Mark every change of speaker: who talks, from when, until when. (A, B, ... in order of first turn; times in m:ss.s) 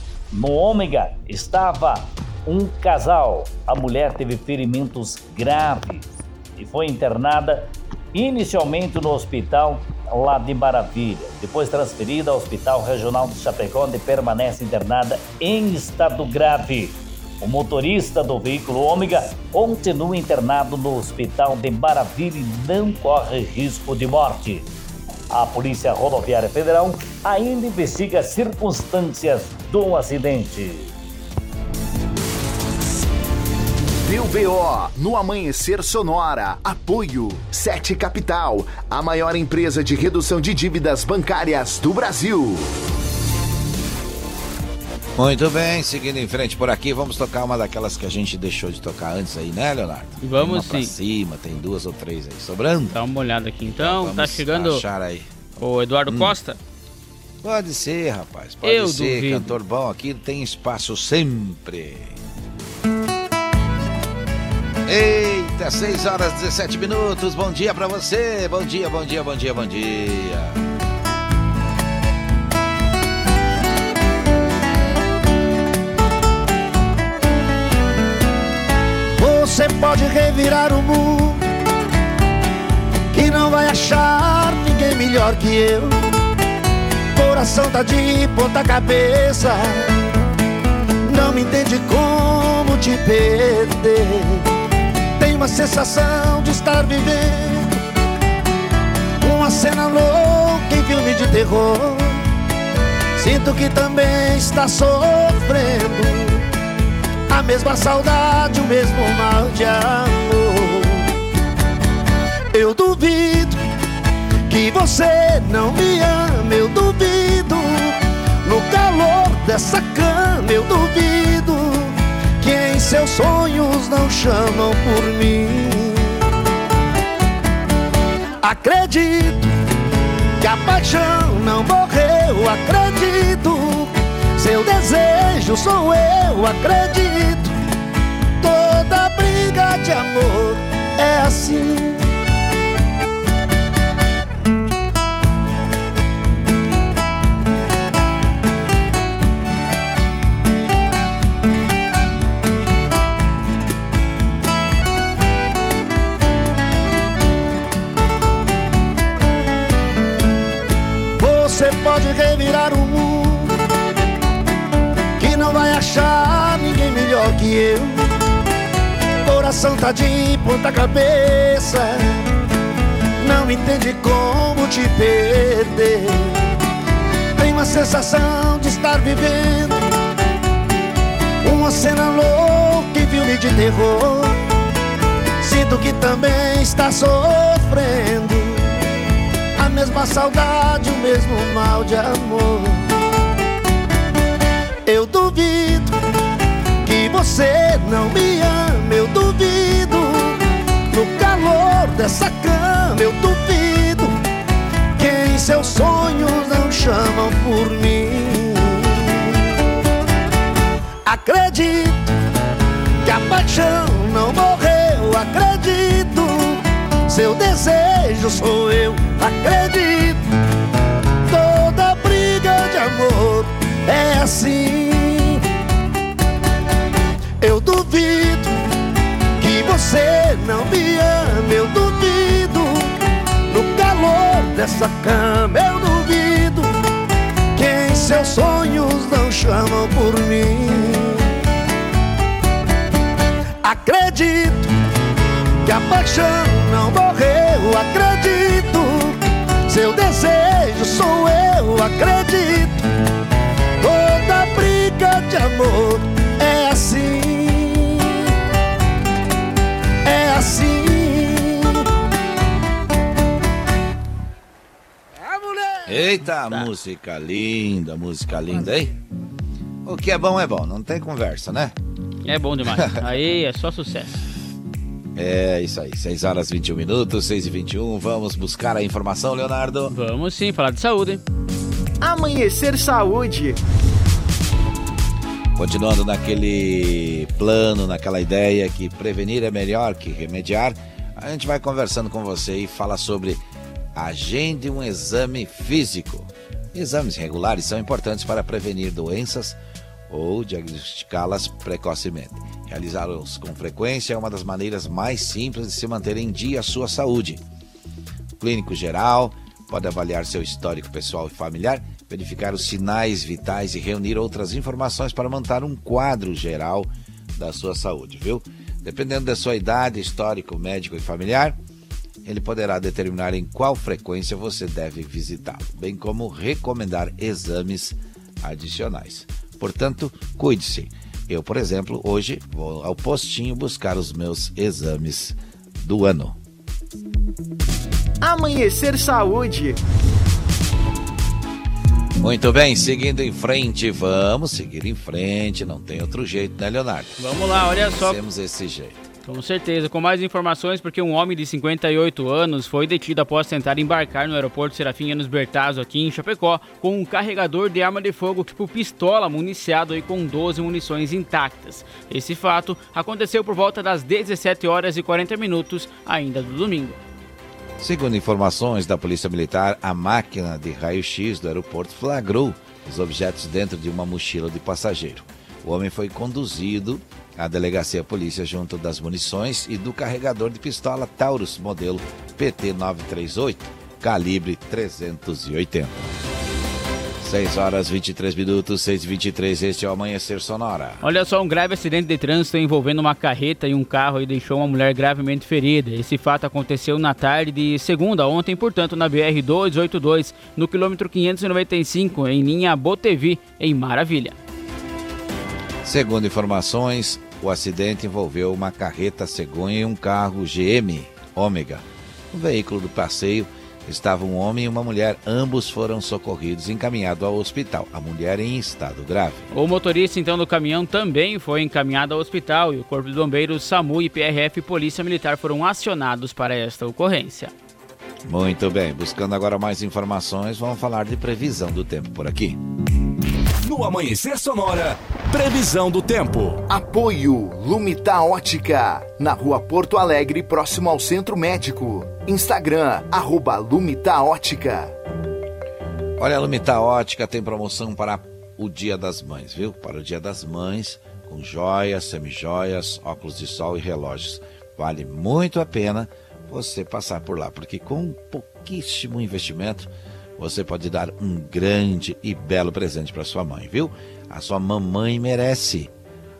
0:00.3-0:24.7 A
0:25.3-0:30.9 A
0:34.0-0:42.7 B
0:45.2-0:52.9 C
0:50.2-0:50.9 D
0:52.9-0:54.8 D
0:53.6-0:55.3 C
0:55.6-0:56.6 D
0:56.1-0:56.3 C
0:57.4-1:02.2 C
0:58.6-0:59.5 D
1:04.8-1:10.6 C
1:19.2-1:21.4 E
1:23.1-1:26.0 E
1:27.1-1:30.0 E
1:31.1-1:34.4 E
1:35.2-1:37.8 E
1:39.2-1:42.2 E
1:43.2-1:46.4 E
1:47.3-1:51.1 E
1:52.5-1:53.6 E
1:54.5-2:06.2 E
2:08.4-2:09.5 E
2:10.4-2:17.5 E
2:18.4-2:22.0 E
2:41.2-2:43.5 E
2:45.2-2:48.1 E
2:49.2-2:52.2 E
2:53.2-2:56.5 E
2:57.4-2:59.9 E
3:01.4-3:04.4 E
3:05.4-3:08.7 E
3:09.6-3:12.9 E
3:14.8-3:15.9 E
3:16.8-3:20.4 E
3:20.9-3:24.2 E
3:25.0-3:29.3 E
3:31.0-3:32.1 E
3:33.0-3:40.2 E
3:41.3-3:45.4 E
3:47.4-3:48.5 E
3:49.4-3:52.9 E
3:53.5-3:56.8 E
3:57.5-4:01.3 E
4:03.6-4:04.7 E
4:05.6-4:12.8 E
4:13.8-4:18.3 E
4:20.0-4:21.8 E
4:25.8-4:28.9 C
4:29.8-4:31.7 C
4:32.2-4:34.2 D
4:35.2-4:39.9 C
4:39.9-4:41.2 D
4:42.0-4:43.6 E
4:45.6-4:53.4 C
4:53.9-4:59.6 C
5:00.1-5:07.4 C
5:08.4-5:21.6 C
5:22.2-5:36.4 C
5:38.2-5:39.7 E
5:42.2-5:47.2 C
5:47.2-5:48.2 D
5:47.8-5:49.0 C
5:49.2-6:07.0 D
6:07.8-6:26.1 C
6:27.2-6:31.0 C
6:31.0-6:44.3 D
6:45.8-6:59.5 C
6:59.5-7:07.5 D
7:08.2-7:12.6 C
7:13.6-7:16.6 F
7:16.7-7:24.9 B
7:26.2-7:45.9 C